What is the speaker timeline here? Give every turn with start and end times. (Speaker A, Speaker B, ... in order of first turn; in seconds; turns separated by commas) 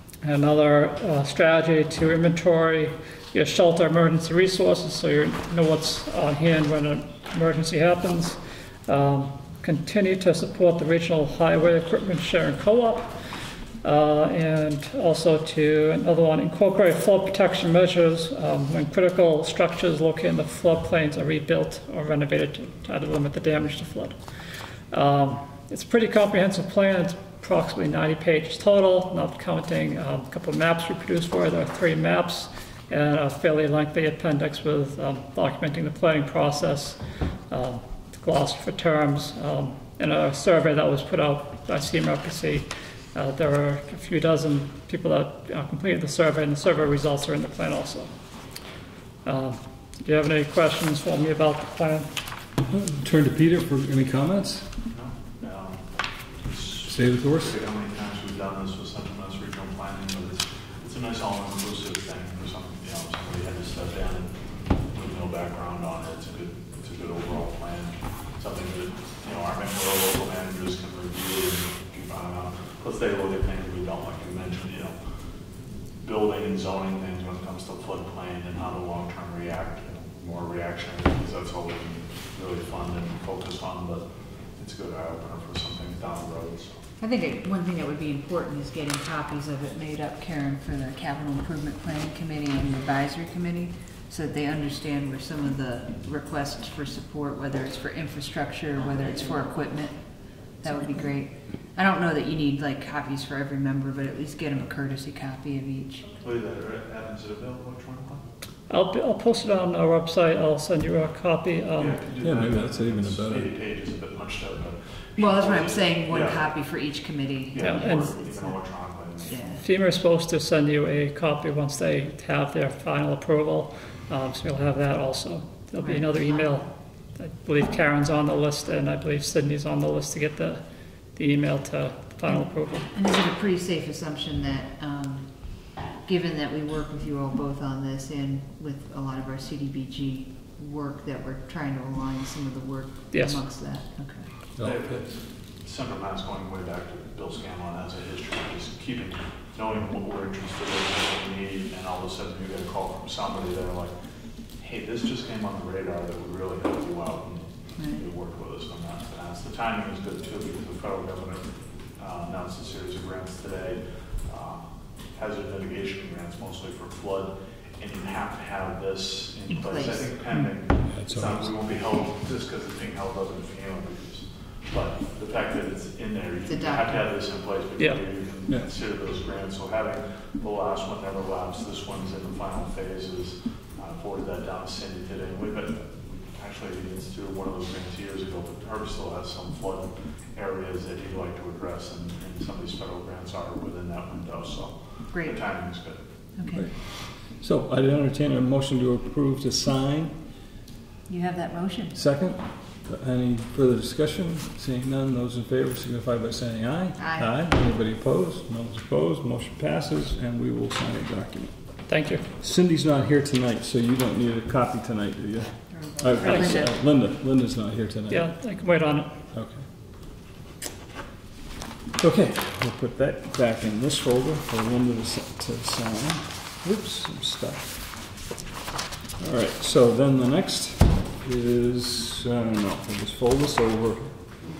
Speaker A: 0.2-48.1, Speaker A: 49.2-52.1, Speaker B: 52.7-54.7, Speaker C: 54.9-55.8, Speaker C: 56.4-74.9, Speaker B: 56.9-57.6, Speaker C: 76.0-84.0, Speaker C: 84.6-86.8, Speaker D: 87.0-106.1, Speaker C: 106.1-108.2, Speaker A: 108.7-112.0, Speaker C: 111.8-116.5, Speaker B: 112.2-113.5, Speaker D: 115.2-118.5, Speaker C: 117.5-119.6, Speaker A: 117.6-118.1, Speaker D: 119.3-119.6, Speaker A: 119.6-130.6, Speaker D: 125.8-126.7, Speaker A: 131.1-132.9, Speaker D: 132.3-144.3, Speaker A: 143.1-143.4, Speaker B: 144.6-145.1, Speaker C: 144.6-153.9, Speaker C: 154.6-196.0, Speaker D: 157.8-158.0, Speaker D: 169.5-170.1, Speaker B: 170.8-171.5, Speaker D: 176.4-177.0, Speaker D: 195.1-195.4, Speaker D: 196.3-196.7, Speaker B: 196.5-200.1, Speaker D: 201.1-202.0, Speaker B: 201.9-211.6, Speaker D: 207.0-207.3, Speaker A: 211.9-212.3, Speaker B: 212.4-218.3, Speaker D: 215.7-216.8, Speaker A: 216.2-216.6, Speaker A: 218.1-219.2, Speaker B: 219.3-219.7, Speaker B: 222.0-228.0, Speaker B: 229.2-234.1